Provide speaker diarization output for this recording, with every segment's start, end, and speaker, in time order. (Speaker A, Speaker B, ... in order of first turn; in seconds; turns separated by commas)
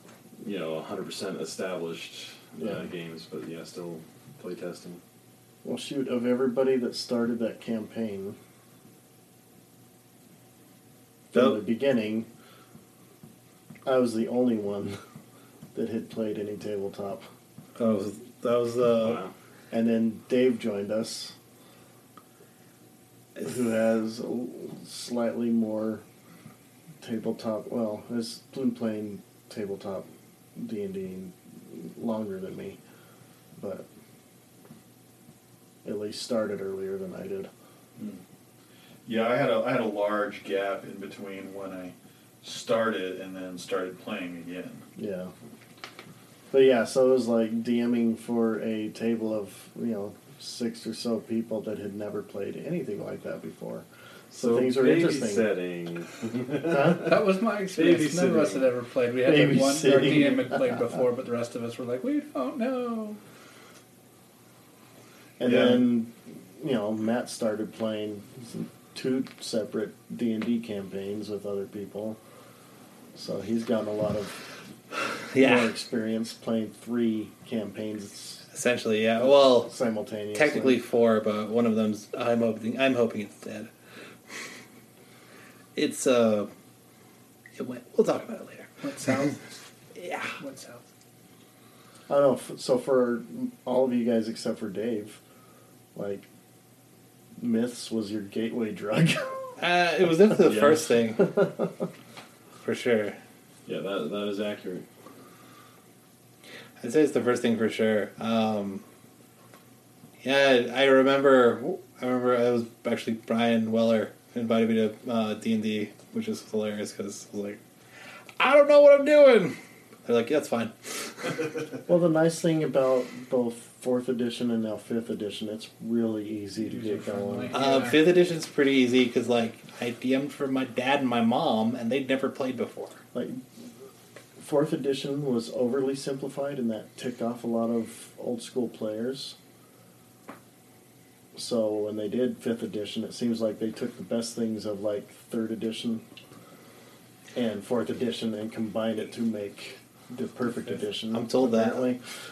Speaker A: 0.4-5.0, Speaker B: 2.6-2.9, Speaker B: 5.6-8.4, Speaker B: 11.3-12.3, Speaker C: 11.3-11.6, Speaker B: 13.8-15.0, Speaker B: 15.7-17.3, Speaker C: 17.8-19.2, Speaker A: 19.0-19.3, Speaker B: 19.7-21.4, Speaker B: 23.4-26.0, Speaker B: 27.0-32.8, Speaker B: 33.6-33.9, Speaker B: 35.8-37.5, Speaker D: 39.1-44.9, Speaker B: 45.0-45.3, Speaker B: 46.5-55.5, Speaker A: 54.3-58.7, Speaker B: 56.7-57.1, Speaker E: 57.0-63.2, Speaker B: 59.2-60.8, Speaker B: 65.4-72.2, Speaker D: 65.5-65.8, Speaker B: 73.2-74.5, Speaker C: 75.3-75.7, Speaker B: 75.3-78.4, Speaker C: 78.5-79.7, Speaker B: 79.2-80.8, Speaker C: 80.3-83.7, Speaker C: 85.8-86.5, Speaker C: 87.6-89.3, Speaker E: 88.8-89.4, Speaker C: 90.0-90.3, Speaker E: 90.4-90.8, Speaker B: 92.1-95.2, Speaker B: 96.0-96.3, Speaker B: 97.4-99.3, Speaker C: 99.6-101.3, Speaker A: 100.5-100.8, Speaker B: 101.2-101.7, Speaker C: 102.6-103.2, Speaker A: 103.7-104.8, Speaker C: 106.8-108.8, Speaker C: 110.2-117.6, Speaker C: 118.4-121.4, Speaker B: 121.9-127.8, Speaker E: 126.6-128.0, Speaker C: 127.5-133.0, Speaker B: 133.1-133.4, Speaker B: 134.4-139.4, Speaker B: 141.3-146.0, Speaker B: 147.3-152.0, Speaker C: 151.1-151.9